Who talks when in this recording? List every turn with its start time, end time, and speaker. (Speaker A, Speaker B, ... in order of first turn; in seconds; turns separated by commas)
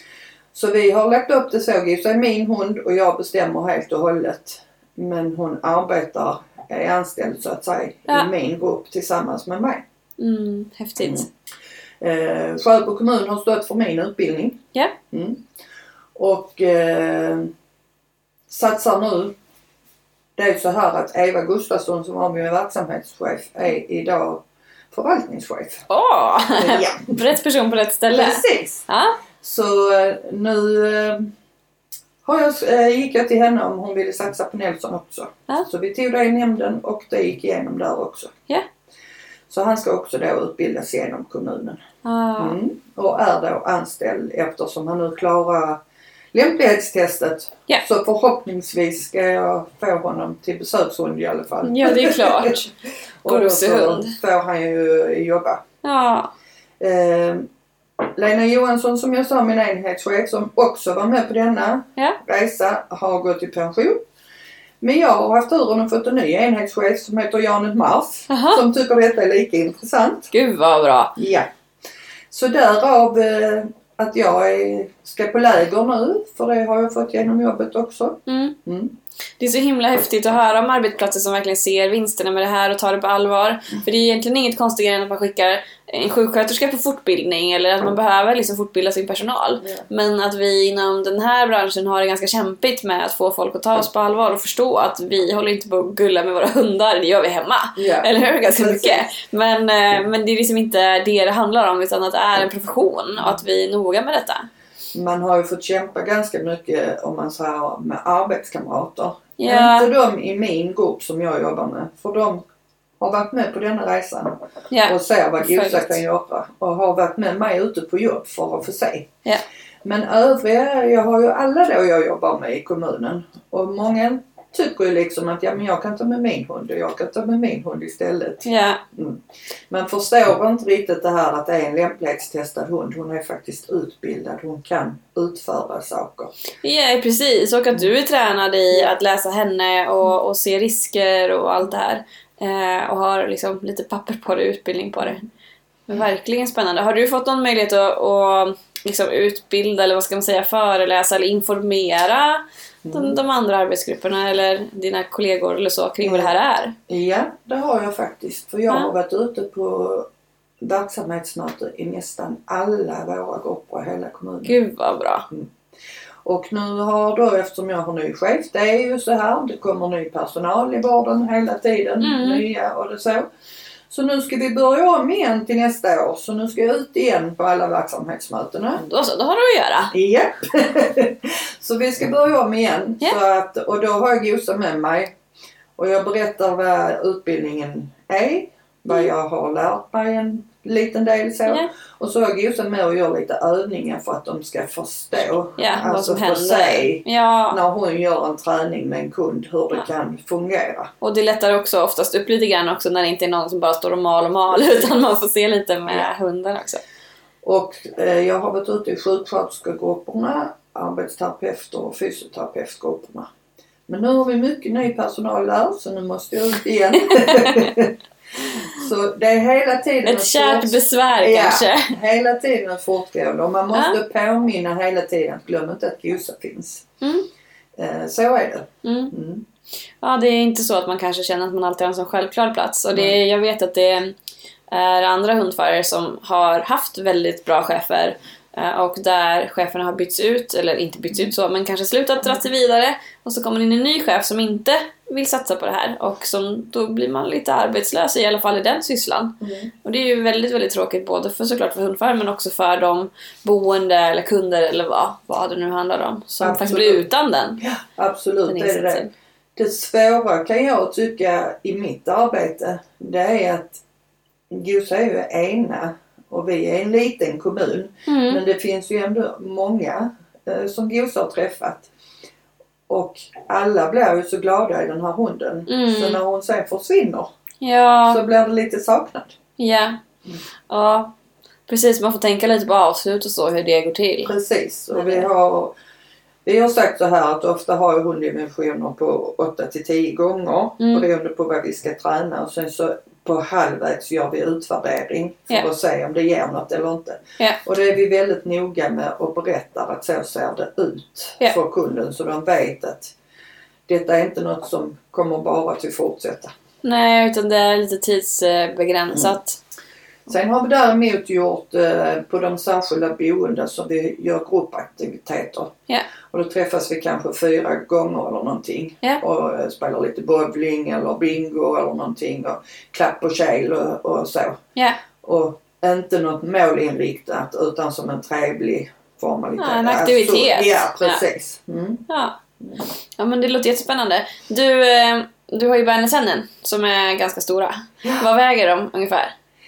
Speaker A: 0.5-9.8, Speaker B: 10.2-11.3, Speaker A: 11.0-11.3, Speaker A: 12.0-15.4, Speaker A: 16.1-17.5, Speaker A: 18.5-19.3, Speaker A: 20.4-25.8, Speaker B: 25.9-29.2, Speaker A: 26.6-27.2, Speaker A: 28.1-28.8, Speaker A: 29.4-31.3, Speaker A: 32.2-38.3, Speaker A: 39.5-41.8, Speaker B: 42.0-42.6, Speaker A: 42.4-45.8, Speaker A: 46.3-52.7, Speaker B: 51.6-52.7, Speaker A: 53.2-55.6, Speaker B: 53.3-54.1, Speaker B: 55.8-56.3, Speaker A: 56.8-57.5, Speaker A: 58.0-64.0, Speaker A: 64.8-70.3, Speaker B: 68.3-68.6, Speaker B: 70.3-71.1, Speaker A: 71.2-71.5, Speaker A: 72.3-79.0, Speaker B: 78.3-78.5, Speaker B: 79.4-104.5, Speaker A: 89.6-89.8, Speaker A: 97.8-99.1, Speaker A: 104.9-112.4, Speaker B: 109.4-109.9, Speaker A: 113.0-119.1, Speaker B: 114.7-116.0, Speaker A: 119.8-136.3, Speaker B: 128.4-128.8, Speaker B: 136.6-145.2, Speaker B: 145.9-156.7, Speaker A: 152.8-153.2, Speaker A: 156.0-156.3, Speaker A: 156.9-160.1, Speaker A: 160.6-164.6, Speaker B: 164.4-165.2, Speaker A: 166.2-173.3, Speaker B: 172.0-172.4, Speaker A: 173.9-178.8, Speaker B: 178.8-179.9, Speaker A: 179.9-185.1, Speaker A: 185.8-200.9, Speaker B: 195.6-197.6, Speaker B: 201.0-206.8, Speaker A: 204.5-204.9, Speaker A: 207.4-213.3, Speaker A: 213.9-226.8, Speaker B: 217.1-217.7, Speaker B: 220.0-221.9, Speaker B: 223.7-224.0, Speaker B: 227.0-227.3, Speaker A: 227.8-229.4, Speaker B: 228.8-229.1, Speaker B: 230.0-234.1, Speaker A: 232.9-233.2, Speaker B: 234.7-257.6, Speaker A: 249.4-249.7, Speaker A: 256.4-257.0, Speaker A: 257.6-259.0, Speaker B: 258.5-259.1, Speaker A: 259.6-263.8, Speaker A: 264.5-271.9, Speaker B: 268.1-268.4, Speaker A: 272.9-277.3, Speaker B: 275.7-276.2, Speaker B: 277.6-278.2, Speaker A: 278.1-279.4, Speaker B: 279.6-280.0, Speaker B: 280.7-281.1, Speaker B: 281.7-284.3, Speaker A: 284.2-285.7, Speaker B: 284.9-285.3, Speaker A: 286.4-303.1, Speaker B: 290.8-291.1, Speaker A: 303.9-306.5, Speaker B: 306.8-309.6, Speaker A: 310.3-315.7, Speaker A: 316.3-324.6, Speaker A: 325.2-332.1, Speaker B: 329.6-331.2, Speaker B: 332.1-332.4, Speaker B: 333.2-339.3